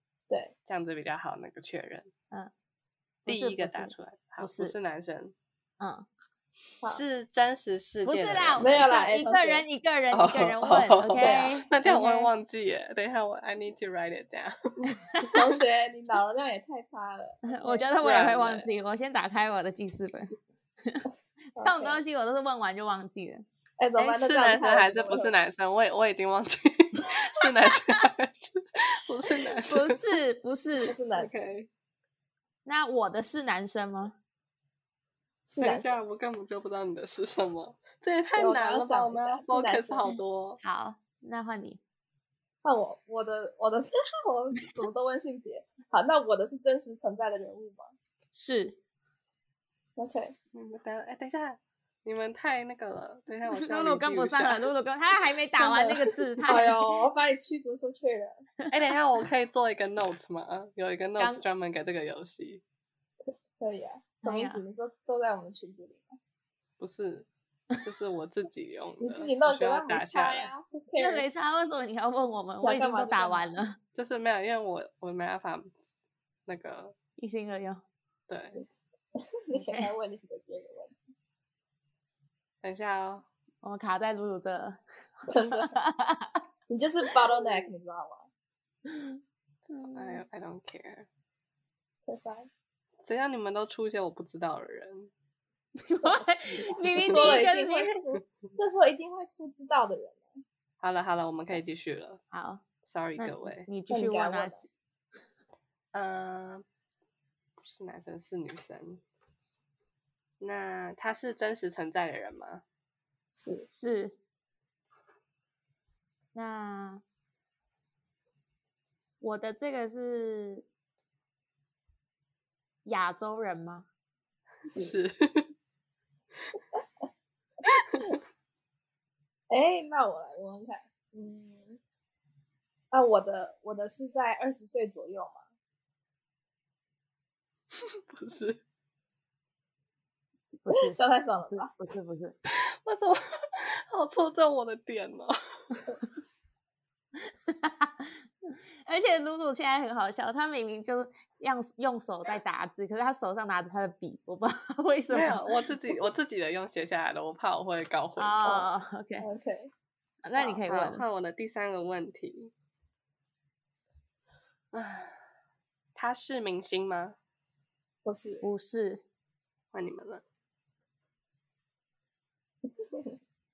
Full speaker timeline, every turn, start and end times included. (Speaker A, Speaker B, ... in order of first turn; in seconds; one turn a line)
Speaker A: 0.7-2.1
Speaker A: 3.2-5.3
Speaker B: 3.2-4.7
Speaker B: 5.8-6.1
Speaker A: 6.8-8.8
Speaker B: 8.0-12.3
Speaker C: 8.6-9.6
Speaker A: 10.1-14.6
Speaker C: 11.2-11.6
Speaker B: 14.8-15.4
Speaker C: 15.3-17.9
Speaker B: 17.4-23.5
Speaker A: 18.0-18.7
Speaker C: 21.6-22.0
Speaker C: 23.8-25.3
Speaker A: 24.0-30.0
Speaker B: 29.7-30.9
Speaker C: 30.9-31.5
Speaker A: 31.2-31.7
Speaker B: 32.6-34.1
Speaker C: 35.4-36.0
Speaker A: 35.6-40.6
Speaker C: 38.4-40.1
Speaker B: 40.6-41.8
Speaker C: 42.6-47.9
Speaker B: 48.3-48.8
Speaker C: 50.0-50.3
Speaker A: 50.5-54.7
Speaker B: 53.5-56.8
Speaker C: 55.6-58.4
Speaker A: 58.7-62.6
Speaker B: 61.2-61.4
Speaker C: 63.6-66.2
Speaker B: 64.2-64.6
Speaker A: 66.8-67.3
Speaker A: 67.8-70.5
Speaker C: 69.0-71.3
Speaker B: 71.0-73.8
Speaker C: 72.6-73.4
Speaker A: 73.9-75.8
Speaker A: 76.5-76.9
Speaker B: 77.2-77.8
Speaker A: 78.3-78.6
Speaker C: 79.1-81.0
Speaker B: 79.5-79.9
Speaker A: 82.6-83.2
Speaker B: 83.6-86.4
Speaker C: 85.3-85.7
Speaker C: 86.7-88.3
Speaker B: 88.8-90.2
Speaker A: 89.9-91.1
Speaker C: 92.0-92.5
Speaker A: 93.0-95.1
Speaker B: 95.8-98.0
Speaker C: 96.0-100.4
Speaker A: 96.9-97.4
Speaker A: 100.8-102.2
Speaker B: 102.3-102.6
Speaker A: 102.8-103.7
Speaker B: 103.2-104.7
Speaker C: 103.9-104.6
Speaker A: 105.9-106.6
Speaker A: 107.6-109.0
Speaker A: 110.4-112.6
Speaker C: 113.3-113.7
Speaker B: 113.7-114.1
Speaker B: 116.3-117.0
Speaker B: 119.2-120.6
Speaker B: 122.8-123.9
Speaker C: 124.6-125.0
Speaker A: 124.8-125.5
Speaker C: 129.5-131.8
Speaker C: 132.9-135.4
Speaker A: 138.1-138.6
Speaker B: 140.6-142.3
Speaker C: 140.7-141.7
Speaker A: 142.5-145.4
Speaker B: 147.5-155.5
Speaker A: 155.1-158.6
Speaker B: 158.2-159.3
Speaker C: 159.2-159.7
Speaker B: 160.2-161.0
Speaker A: 160.6-162.5
Speaker A: 164.7-165.2
Speaker A: 165.9-167.2
Speaker C: 168.0-168.4
Speaker B: 168.4-169.0
Speaker A: 169.7-170.2
Speaker C: 172.7-173.2